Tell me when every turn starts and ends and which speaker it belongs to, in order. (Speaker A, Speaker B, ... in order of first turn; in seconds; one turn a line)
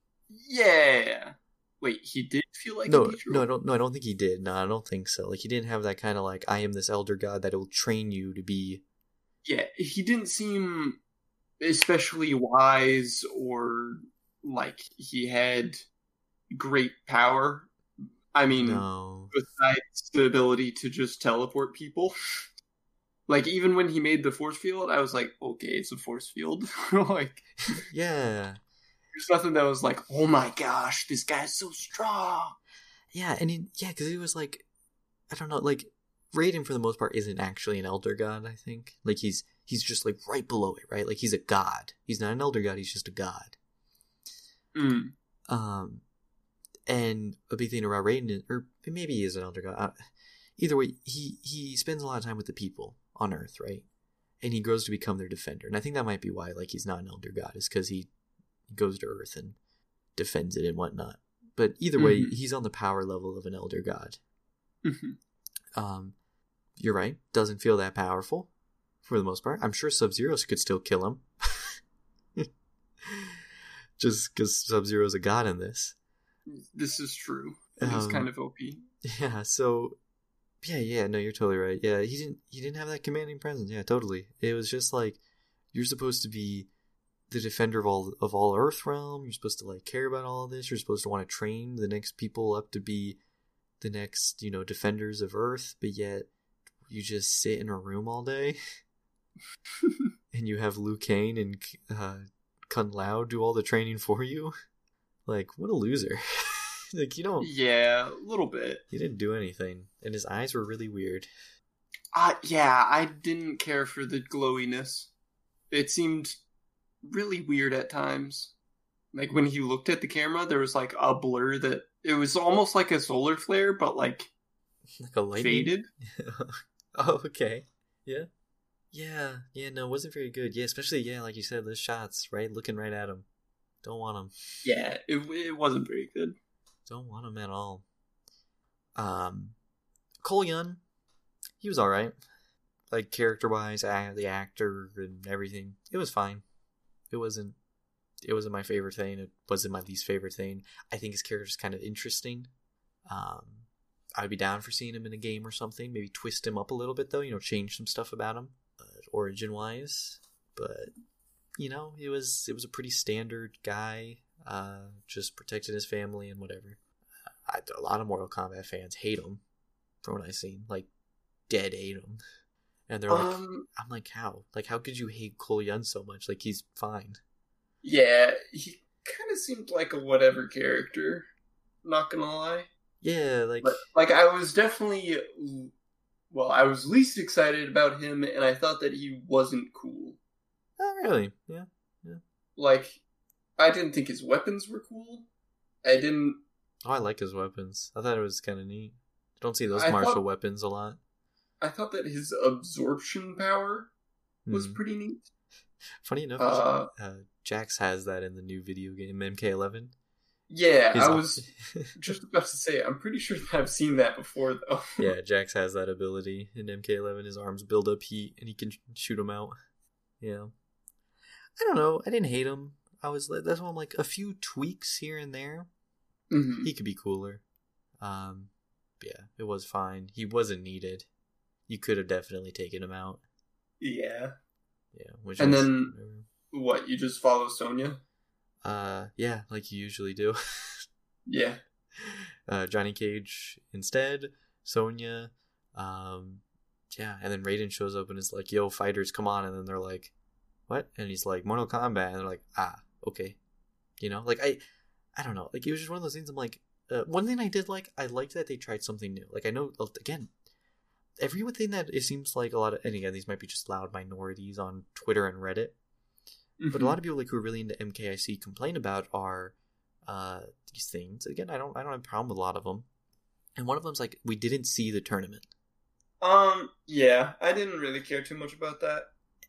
Speaker A: 0.3-3.4
Speaker B: 2.9-8.8
Speaker A: 9.4-11.0
Speaker A: 11.6-15.9
Speaker A: 16.5-17.7
Speaker A: 18.3-22.1
Speaker B: 18.5-19.3
Speaker A: 23.3-27.8
Speaker B: 27.9-28.6
Speaker A: 29.1-32.5
Speaker B: 33.1-34.6
Speaker B: 35.3-43.5
Speaker A: 44.7-45.1
Speaker B: 45.5-46.0
Speaker B: 46.9-49.9
Speaker B: 50.6-53.8
Speaker B: 54.4-58.1
Speaker B: 58.7-59.6
Speaker B: 60.1-64.2
Speaker A: 62.0-62.3
Speaker A: 64.8-65.2
Speaker B: 65.8-66.1
Speaker B: 66.8-68.5
Speaker B: 69.0-71.8
Speaker B: 73.0-73.4
Speaker B: 74.0-76.0
Speaker A: 76.5-78.8
Speaker B: 77.8-78.3
Speaker B: 79.0-80.0
Speaker B: 80.6-85.2
Speaker B: 85.7-86.7
Speaker B: 87.3-93.2
Speaker B: 93.8-96.3
Speaker B: 96.9-98.6
Speaker A: 99.8-100.1
Speaker B: 100.3-104.5
Speaker B: 105.2-107.5
Speaker A: 107.4-108.8
Speaker B: 108.9-111.3
Speaker A: 112.1-115.1
Speaker A: 115.7-116.4
Speaker A: 117.0-118.5
Speaker A: 119.1-124.3
Speaker B: 125.0-128.3
Speaker A: 125.4-125.9
Speaker B: 128.9-133.2
Speaker B: 133.8-134.3
Speaker A: 134.6-136.3
Speaker B: 136.9-137.8
Speaker B: 139.0-139.6
Speaker B: 140.2-140.8
Speaker B: 141.6-142.2
Speaker B: 142.9-146.4
Speaker B: 147.1-147.6
Speaker B: 148.2-152.5
Speaker B: 153.1-153.7
Speaker B: 154.2-160.9
Speaker B: 161.6-166.8
Speaker B: 167.4-169.4
Speaker B: 170.0-170.9
Speaker B: 171.5-172.2
Speaker B: 172.9-177.2
Speaker A: 173.1-173.7
Speaker A: 177.8-181.3
Speaker A: 181.8-182.7
Speaker B: 183.0-183.8
Speaker A: 183.6-185.7
Speaker A: 186.3-190.2
Speaker B: 190.8-192.2
Speaker A: 192.6-193.0
Speaker A: 193.6-195.3
Speaker A: 195.8-196.4
Speaker B: 196.8-201.0
Speaker A: 199.7-200.2
Speaker A: 201.6-203.9
Speaker B: 204.4-204.8
Speaker A: 204.5-205.2
Speaker B: 206.0-209.9
Speaker A: 206.4-206.9
Speaker A: 210.5-215.1
Speaker B: 210.9-211.9
Speaker B: 215.0-219.5
Speaker B: 220.2-220.5
Speaker B: 221.6-225.7
Speaker A: 226.3-226.7
Speaker B: 226.6-227.4
Speaker B: 228.0-231.1
Speaker B: 231.7-233.2
Speaker A: 233.8-234.3
Speaker B: 234.9-236.2
Speaker A: 235.4-235.9
Speaker A: 236.5-238.0
Speaker B: 238.6-240.8
Speaker A: 241.3-241.6
Speaker B: 242.0-250.1
Speaker B: 250.7-253.4
Speaker B: 254.0-254.6
Speaker B: 255.2-260.3
Speaker B: 261.2-265.7
Speaker A: 266.6-266.9
Speaker B: 266.7-269.5
Speaker B: 270.1-272.9
Speaker B: 273.6-275.5
Speaker A: 276.2-279.1